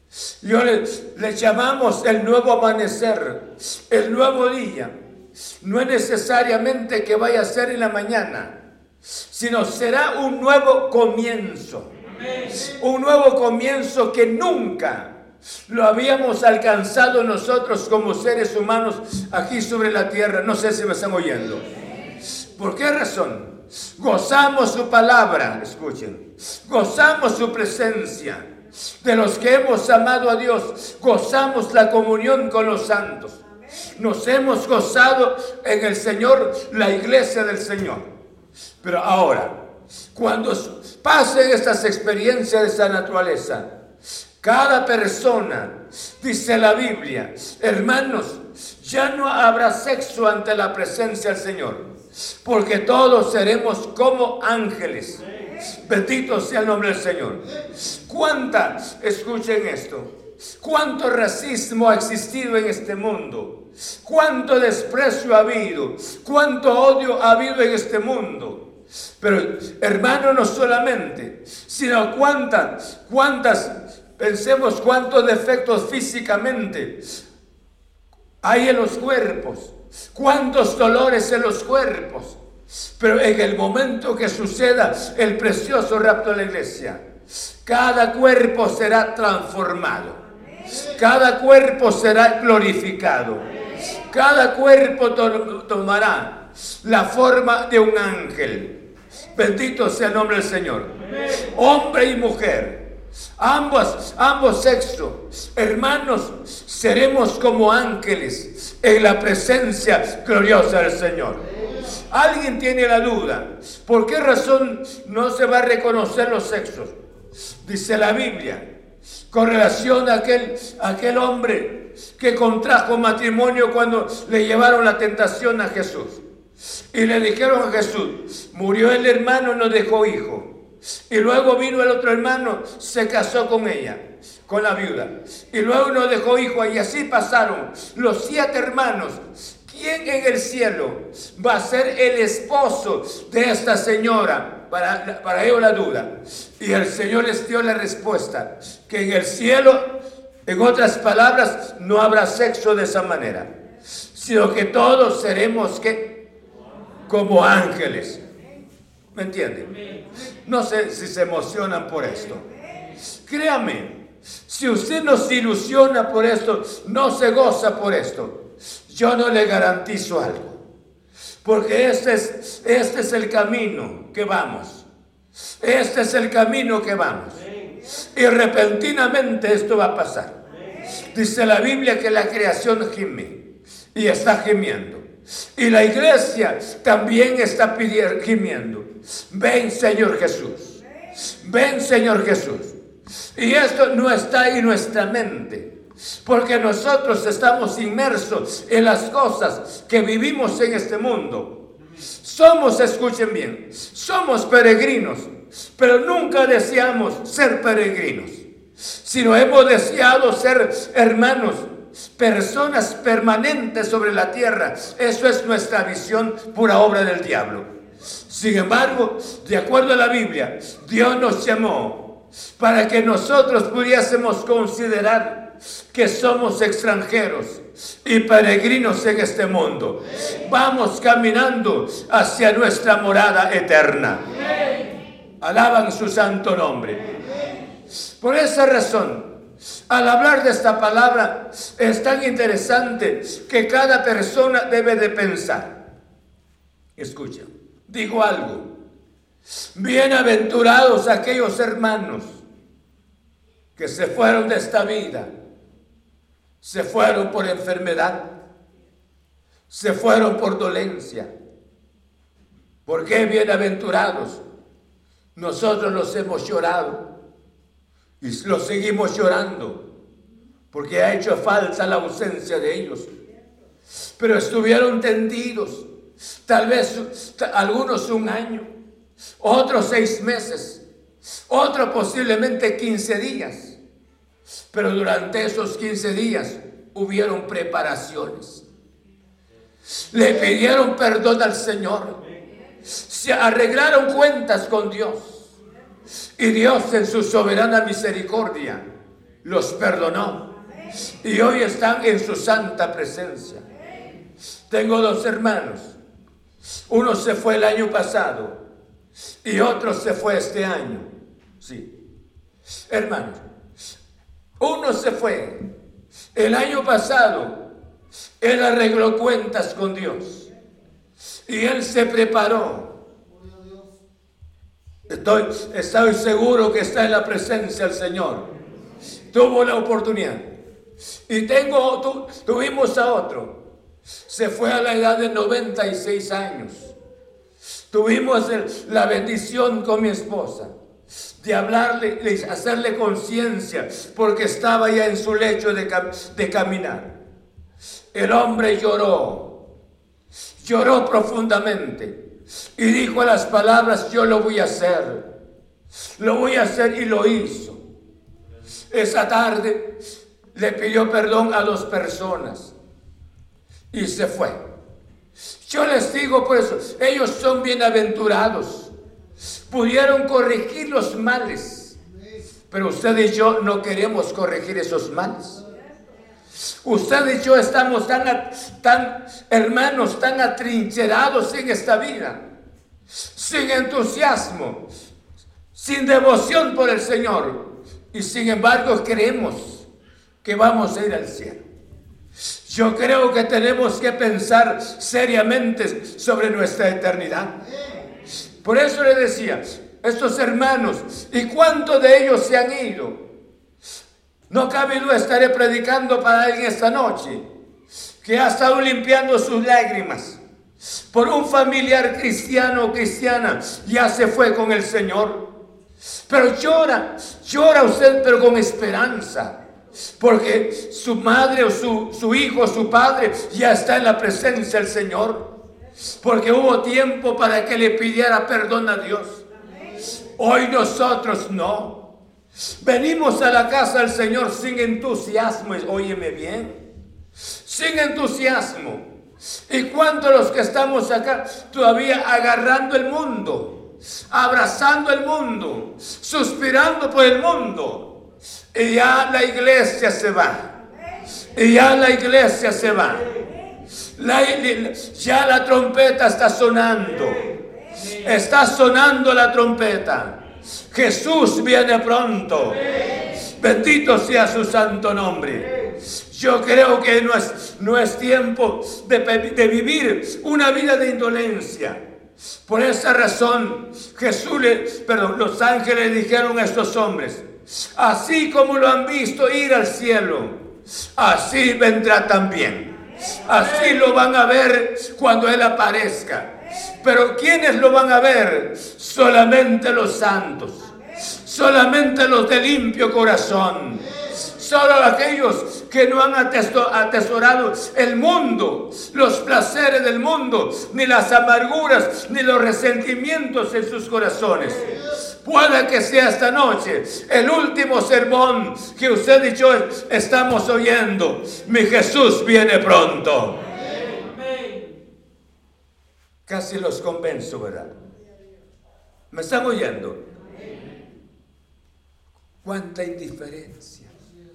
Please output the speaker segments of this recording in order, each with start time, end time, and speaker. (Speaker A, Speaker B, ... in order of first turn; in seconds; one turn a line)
Speaker A: 0.4-4.9
Speaker A: 5.6-8.5
Speaker A: 9.2-15.1
Speaker A: 15.7-21.6
Speaker A: 22.6-28.5
Speaker A: 29.0-33.4
Speaker A: 34.0-38.1
Speaker A: 38.8-39.5
Speaker A: 40.1-43.7
Speaker A: 44.4-55.2
Speaker A: 55.8-68.6
Speaker A: 69.2-77.0
Speaker A: 78.4-82.4
Speaker A: 83.0-87.0
Speaker A: 87.6-90.2
Speaker A: 90.9-98.7
Speaker A: 99.3-102.8
Speaker A: 103.4-116.9
Speaker A: 117.6-118.7
Speaker A: 119.3-126.2
Speaker A: 126.9-130.5
Speaker A: 131.1-149.9
Speaker A: 150.4-153.5
Speaker A: 154.1-156.0
Speaker A: 157.1-158.2
Speaker A: 159.1-159.7
Speaker A: 160.4-162.4
Speaker A: 163.2-163.9
Speaker A: 164.5-170.6
Speaker A: 171.4-174.8
Speaker A: 175.6-177.4
Speaker A: 178.0-180.3
Speaker A: 181.1-183.4
Speaker A: 183.9-192.8
Speaker A: 193.3-195.7
Speaker A: 196.2-201.5
Speaker A: 202.2-217.7
Speaker A: 218.3-222.0
Speaker A: 222.6-234.2
Speaker A: 235.4-237.1
Speaker A: 238.2-239.3
Speaker A: 239.9-245.7
Speaker A: 246.9-248.7
Speaker A: 249.7-252.4
Speaker A: 253.8-255.3
Speaker A: 256.6-258.2
Speaker A: 259.7-261.3
Speaker A: 262.9-264.4
Speaker A: 265.3-267.0
Speaker A: 268.2-269.8
Speaker A: 270.7-273.1
Speaker A: 274.2-275.9
Speaker A: 276.4-278.7
Speaker A: 279.4-280.8
Speaker A: 281.5-283.8
Speaker A: 284.7-288.6
Speaker A: 290.1-292.2
Speaker A: 292.9-295.4
Speaker A: 296.4-298.8
Speaker A: 299.4-300.4
Speaker A: 301.2-303.6
Speaker A: 304.7-306.0
Speaker A: 306.9-308.6
Speaker A: 309.4-311.9
Speaker A: 312.9-313.4
Speaker A: 314.6-315.6
Speaker A: 316.3-317.6
Speaker A: 318.4-320.4
Speaker A: 321.4-322.9
Speaker A: 325.1-328.5
Speaker A: 329.3-330.4
Speaker A: 331.3-333.6
Speaker A: 334.2-336.9
Speaker A: 337.9-340.7
Speaker A: 341.4-347.1
Speaker A: 348.1-349.5
Speaker A: 350.6-352.2
Speaker A: 352.8-355.2
Speaker A: 356.1-357.8
Speaker A: 358.9-359.8
Speaker A: 360.5-362.7
Speaker A: 363.9-364.6
Speaker A: 365.6-368.9
Speaker A: 369.7-372.0
Speaker A: 372.7-375.6
Speaker A: 376.8-382.4
Speaker A: 383.2-384.8
Speaker A: 385.7-389.9
Speaker A: 390.4-391.6
Speaker A: 392.5-397.5
Speaker A: 398.6-403.2
Speaker A: 404.5-407.4
Speaker A: 408.2-410.4
Speaker A: 410.9-415.4
Speaker A: 416.3-419.5
Speaker A: 420.2-425.4
Speaker A: 426.2-429.4
Speaker A: 430.4-431.9
Speaker A: 432.8-436.7
Speaker A: 437.6-439.0
Speaker A: 439.7-448.1
Speaker A: 448.7-450.7
Speaker A: 451.5-453.3
Speaker A: 454.1-457.5
Speaker A: 458.1-460.4
Speaker A: 460.9-472.0
Speaker A: 472.6-480.6
Speaker A: 481.1-513.6
Speaker A: 516.5-517.9
Speaker A: 519.3-520.2
Speaker A: 522.6-524.1